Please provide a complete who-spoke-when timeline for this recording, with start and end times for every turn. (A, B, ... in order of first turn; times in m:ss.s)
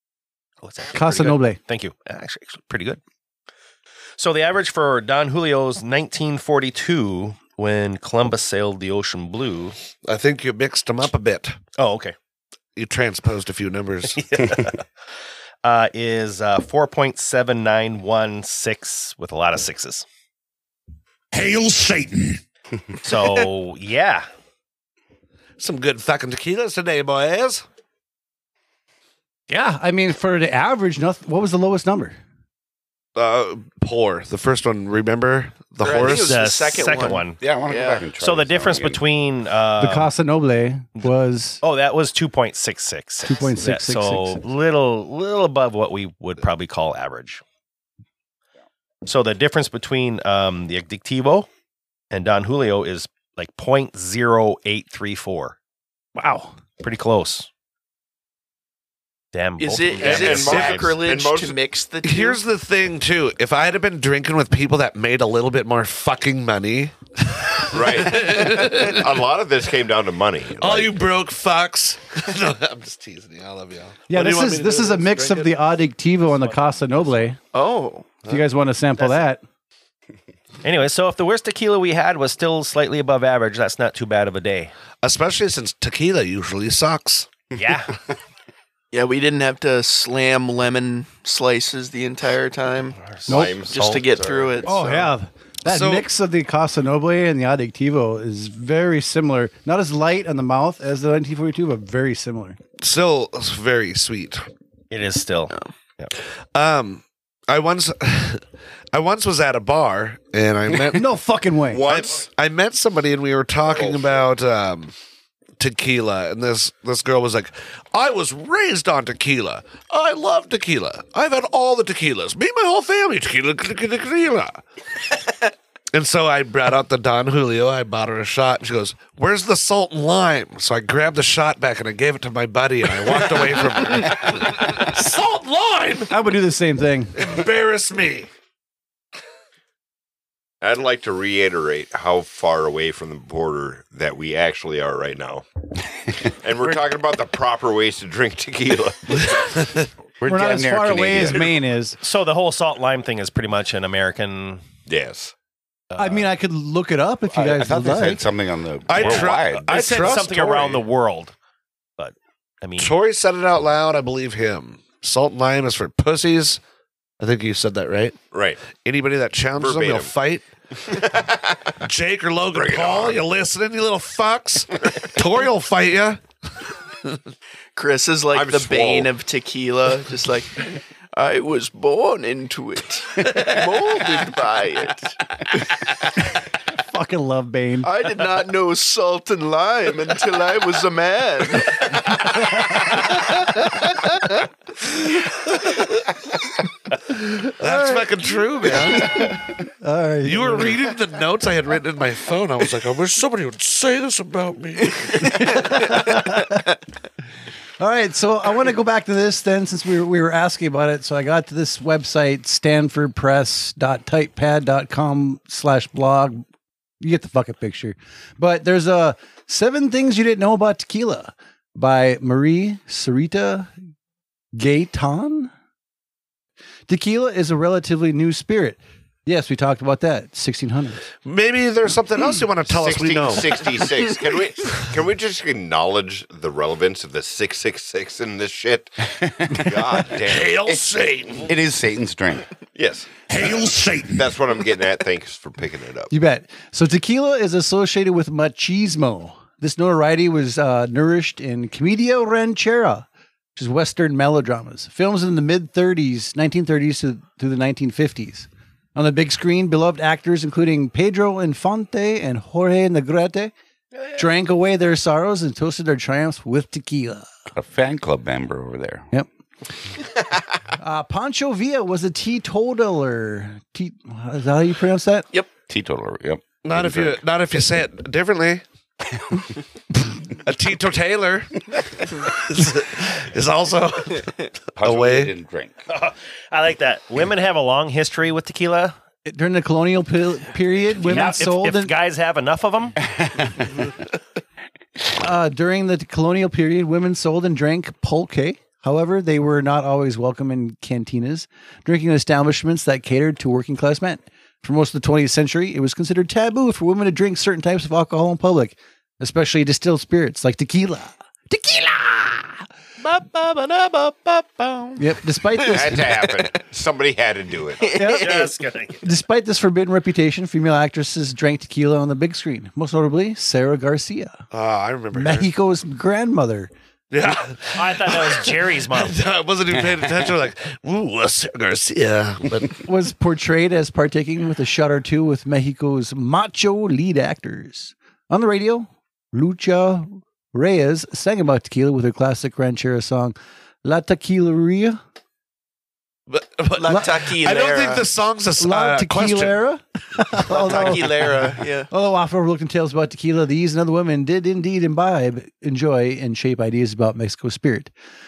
0:00.6-0:03.0 A
0:00.9-0:01.6 B
0:04.2-0:09.8 A
0:10.0-0:11.6 C
0:11.8-0:12.1 A
0:12.8-0:14.2 C
0:14.2-0:14.8 A
0:15.6-0:20.0 A
0:21.6-0:21.9 C
0:23.0-0:24.3 A
0:25.6-0:27.6 C
0:29.5-0:32.2 B
0:33.2-0:36.4 C
0:35.8-0:38.1 D
0:36.1-0:37.4 A
0:37.4-0:39.0 E
0:38.2-0:40.1 A
0:39.8-0:41.6 B
0:41.6-0:47.4 A
0:43.2-0:44.4 B
0:49.0-0:51.5 A
0:52.1-0:55.6 A
0:56.2-0:56.5 B
0:56.8-0:57.5 A
0:59.3-1:01.0 A
0:59.6-1:02.4 D
1:00.0-1:01.6 F
1:02.0-1:09.1 C
1:07.7-1:11.0 F
1:10.6-1:15.6 C
1:14.1-1:17.4 B
1:16.2-1:17.3 A
1:17.5-1:18.2 D
1:18.2-1:19.4 B
1:19.0-1:19.2 A
1:20.6-1:24.7 A
1:25.0-1:27.3 C
1:27.5-1:27.9 A
1:28.9-1:35.0 D
1:33.0-1:33.6 A
1:33.3-1:34.7 F
1:33.3-1:33.6 B
1:34.6-1:42.6 B
1:35.6-1:36.1 C
1:42.8-1:44.5 C
1:44.9-1:46.1 A
1:46.5-1:51.1 C
1:50.9-1:51.8 B
1:51.7-1:52.3 F
1:51.8-1:54.9 C
1:55.6-2:04.6 C
2:05.9-2:16.1 C
2:16.1-2:17.1 B
2:17.1-2:18.3 C
2:20.6-2:25.4 F
2:26.2-2:29.5 F
2:29.2-2:29.9 C
2:30.2-2:31.5 E
2:30.3-2:32.0 B
2:32.0-2:34.6 A
2:34.9-2:35.3 F
2:36.0-2:38.2 B
2:37.3-2:40.1 E
2:38.9-2:40.8 C
2:39.0-2:41.3 A
2:42.0-2:42.9 A
2:42.8-2:46.6 C
2:47.2-2:48.2 C
2:48.3-2:48.6 F
2:48.8-2:50.4 C
2:49.6-2:50.1 F
2:50.8-2:51.7 F
2:51.8-2:56.2 C
2:52.5-2:53.2 F
2:57.8-3:05.1 D
2:58.3-2:59.1 F
3:06.8-3:07.9 B
3:07.8-3:12.1 D
3:12.3-3:12.7 B
3:17.1-3:19.4 C
3:17.6-3:18.0 B
3:19.8-3:20.8 B
3:20.2-3:25.7 C
3:25.2-3:26.6 B
3:27.8-3:36.4 B
3:37.0-3:43.7 B
3:44.5-3:45.5 B
3:46.9-3:51.0 B
3:51.2-3:53.7 C
3:52.7-4:00.7 F
4:00.2-4:01.5 C
4:01.4-4:02.5 E
4:02.7-4:06.1 F
4:03.3-4:04.1 C
4:06.1-4:23.5 B
4:24.1-4:27.3 B
4:27.5-4:29.1 E
4:30.8-4:35.3 B
4:35.7-4:37.2 E
4:36.6-4:38.6 C
4:40.4-4:45.3 C
4:44.8-4:45.7 E
4:45.9-4:48.9 A
4:49.2-4:51.9 B
4:51.0-4:53.0 A
4:55.2-5:12.7 B
5:13.3-5:14.1 A
5:14.3-5:15.0 D
5:15.0-5:16.1 B
5:15.7-5:17.9 F
5:17.8-5:18.5 D
5:17.9-5:18.3 B
5:18.0-5:19.0 A
5:19.0-5:24.4 B
5:24.5-5:25.5 C
5:25.1-5:26.7 B
5:27.1-5:32.8 C
5:27.7-5:29.2 A
5:32.8-5:45.0 B
5:46.3-5:49.5 C
5:46.8-5:48.1 D
5:48.6-5:57.9 B
5:50.5-5:51.9 D